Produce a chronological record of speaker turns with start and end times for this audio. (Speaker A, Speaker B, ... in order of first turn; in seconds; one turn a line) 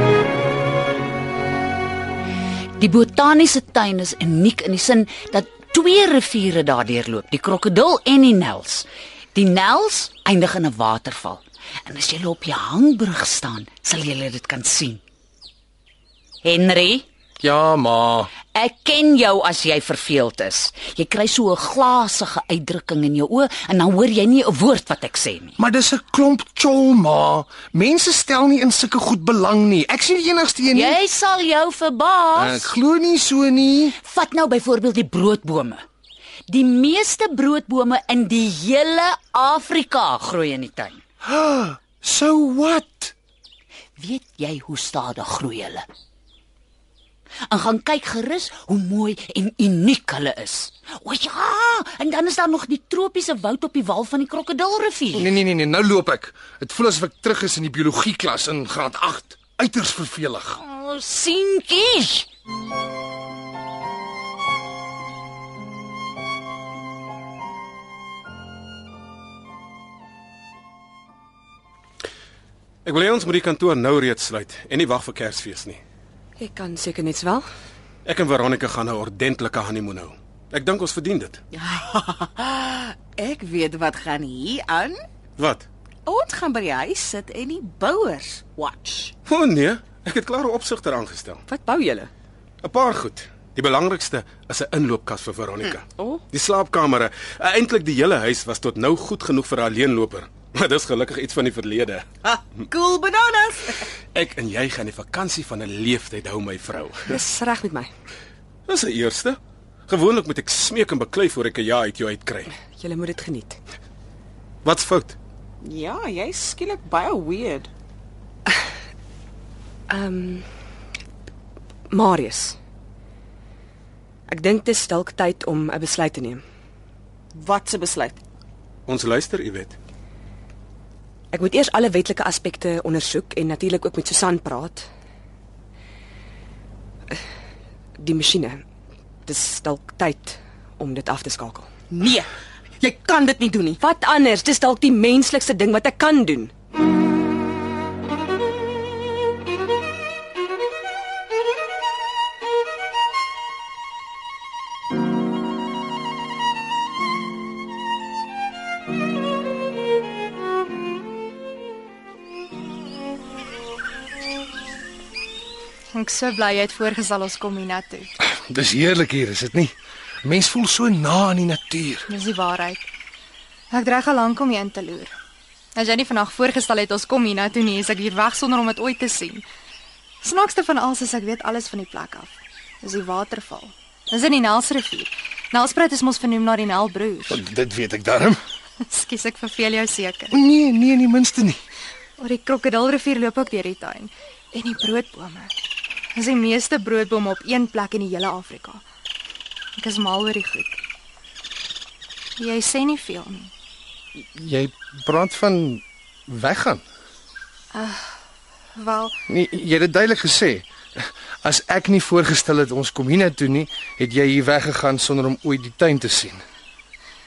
Speaker A: 2.8-15.0
Speaker A: 16.4-17.1
Speaker B: 17.4-18.3
Speaker A: 18.5-25.6
Speaker B: 25.6-31.0
Speaker A: 30.7-32.7
Speaker B: 32.4-34.0
Speaker A: 34.0-35.8
Speaker A: 36.5-41.0
Speaker B: 41.2-43.1
Speaker A: 44.0-45.8
Speaker A: 47.5-55.3
Speaker B: 55.1-60.6
Speaker A: 60.6-62.3
Speaker C: 72.8-75.8
Speaker D: 76.4-77.5
Speaker C: 78.0-81.4
Speaker E: 81.5-85.0
Speaker C: 85.4-85.7
Speaker E: 86.1-89.1
Speaker C: 89.2-91.4
Speaker D: 91.5-92.1
Speaker C: 92.6-102.3
Speaker E: 102.7-103.7
Speaker C: 104.1-107.1
Speaker D: 107.1-107.9
Speaker C: 108.7-109.4
Speaker C: 109.9-112.5
Speaker D: 112.8-113.6
Speaker C: 114.6-115.2
Speaker E: 115.6-117.7
Speaker D: 119.9-120.5
Speaker D: 121.9-122.6
Speaker D: 124.3-126.4
Speaker E: 127.4-128.1
Speaker C: 128.9-129.8
Speaker D: 131.3-134.9
Speaker D: 138.0-138.6
Speaker D: 139.2-141.7
Speaker E: 141.9-142.3
Speaker E: 142.8-143.8
Speaker D: 143.8-146.5
Speaker F: 165.9-168.1
Speaker B: 168.2-172.1
Speaker F: 172.1-172.9
Speaker F: 173.7-175.1
Speaker F: 175.8-179.4
Speaker F: 180.2-187.4
Speaker B: 187.3-188.4
Speaker F: 188.8-190.3
Speaker B: 190.3-191.6
Speaker F: 192.2-195.5
Speaker F: 196.2-198.8
Speaker F: 199.8-200.8
Speaker F: 202.4-203.5
Speaker B: 204.2-206.8
Speaker F: 207.7-208.2
Speaker F: 208.8-209.1
Speaker B: 209.3-216.4